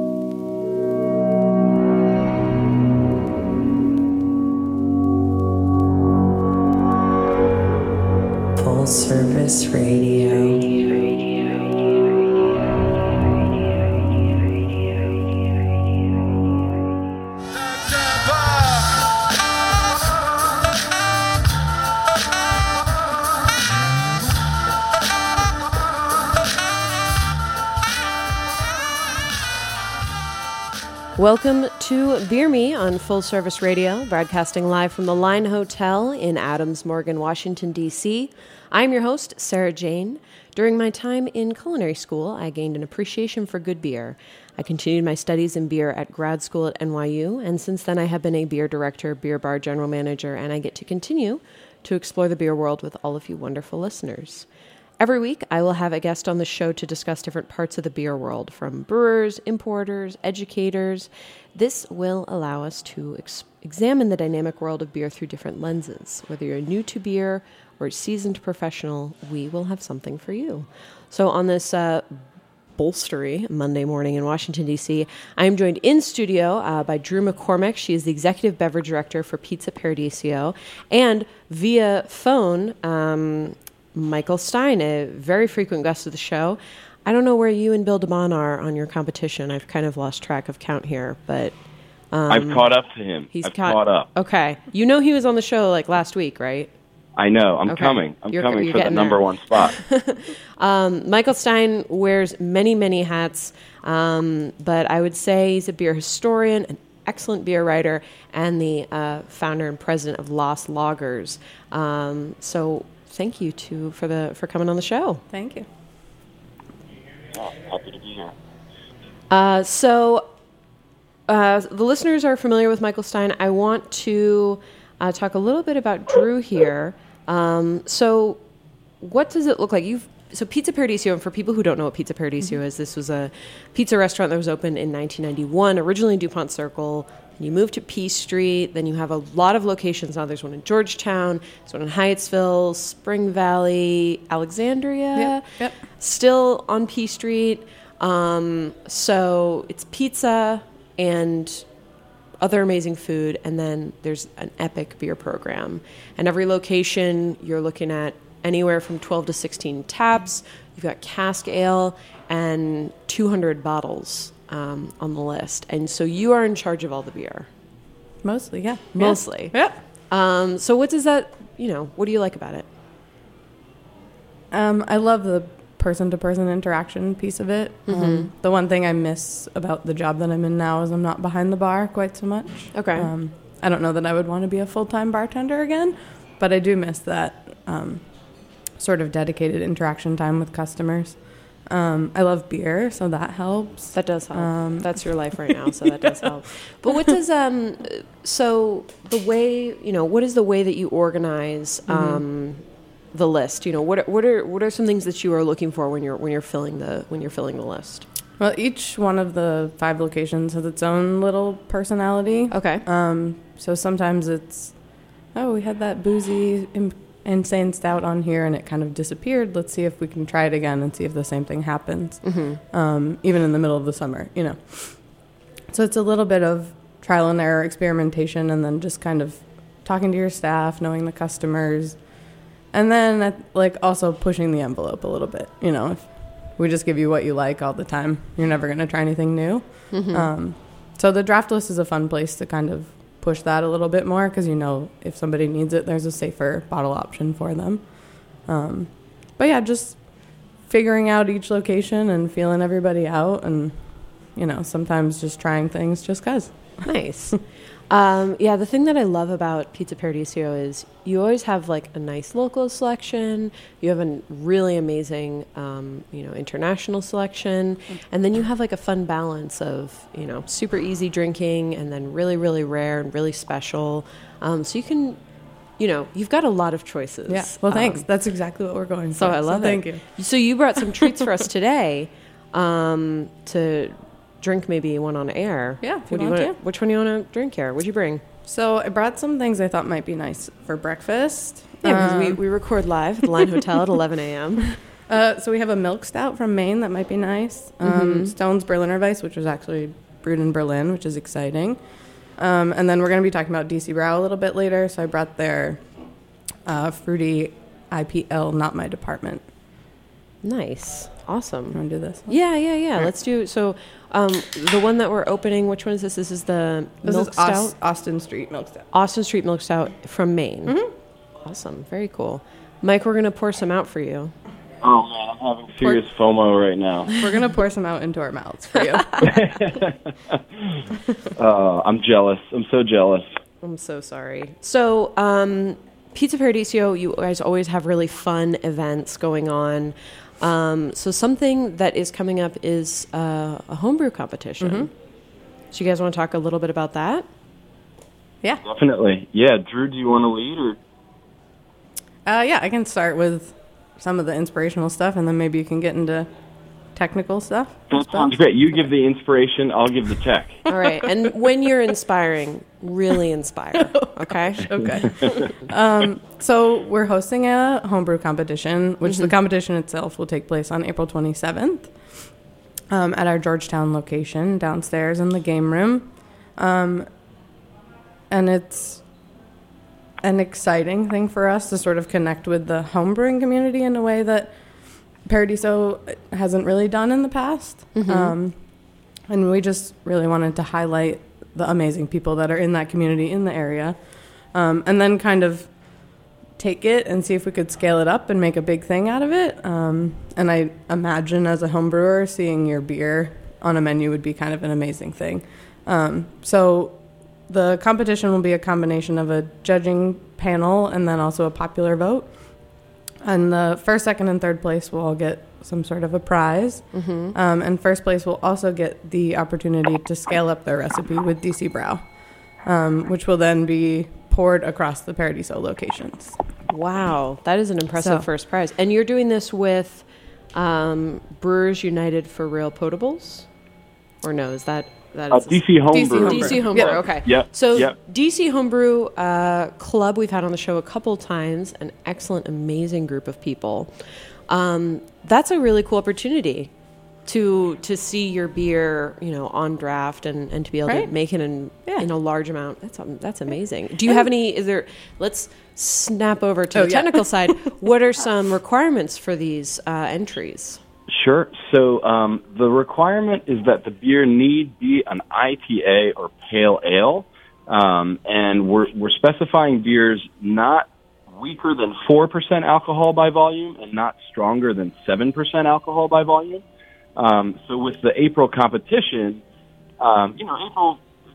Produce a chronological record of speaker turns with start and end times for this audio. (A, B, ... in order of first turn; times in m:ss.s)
0:08.6-0:10.8 A
0:31.2-0:54.4 A
0:55.0-1:12.2 A
1:12.7-1:31.6 A
1:32.1-1:32.6 A
1:32.3-1:34.1 B
1:33.3-1:36.7 A
1:37.2-1:39.8 B
1:37.7-1:55.2 A
1:55.3-1:55.7 C
1:57.4-1:58.3 B
1:59.3-2:00.2 A
2:01.3-2:08.4 A
2:09.0-2:31.6 A
2:25.1-2:25.8 C
2:32.4-2:47.5 A
2:48.2-2:49.8 C
2:48.9-2:49.6 A
2:50.1-2:52.7 A
2:54.5-3:08.1 C
2:57.9-2:58.3 A
3:02.7-3:03.1 A
3:08.7-3:15.5 C
3:13.9-3:22.6 A
3:21.9-3:22.2 C
3:23.1-3:28.0 A
3:28.4-3:52.1 C
3:32.5-3:32.8 A
3:42.2-3:42.6 A
3:52.7-4:16.8 C
3:59.9-4:00.3 A
4:16.8-4:35.2 A
4:35.8-4:38.0 A
4:37.3-4:40.0 C
4:39.1-4:48.2 A
4:45.8-4:46.6 C
4:48.4-4:52.4 C
4:51.8-4:54.7 A
4:55.1-5:05.8 C
4:57.8-4:58.3 A
5:06.6-5:09.5 C
5:10.4-5:17.7 A
5:11.7-5:12.4 C
5:17.0-5:18.9 C
5:18.9-5:20.8 A
5:21.4-5:24.3 A
5:24.8-5:27.1 B
5:27.2-5:29.3 C
5:29.2-5:30.8 B
5:31.3-5:33.3 B
5:33.6-5:44.9 A
5:44.6-5:44.9 C
5:45.7-5:47.2 A
5:48.6-5:50.8 B
5:52.2-5:56.3 C
5:56.9-5:58.4 C
5:57.9-6:00.7 B
6:00.7-6:05.5 A
6:03.9-6:12.3 C
6:09.0-6:09.3 A
6:12.9-6:17.1 C
6:18.3-6:19.0 C
6:20.2-6:28.6 C
6:27.9-6:28.3 A
6:29.3-6:36.0 C
6:36.6-6:47.0 C
6:47.5-6:52.4 C
6:53.2-7:06.4 C
6:56.9-6:57.3 A
7:06.7-7:13.5 A
7:08.0-7:08.2 C
7:14.2-7:15.6 A
7:15.3-7:17.9 B
7:15.9-7:17.0 C
7:16.2-7:23.9 A
7:24.5-7:26.7 A
7:27.2-7:40.8 A
7:30.8-7:31.1 C
7:36.7-7:37.5 C
7:41.1-7:56.6 B
7:57.2-7:59.4 B
8:00.0-8:01.0 B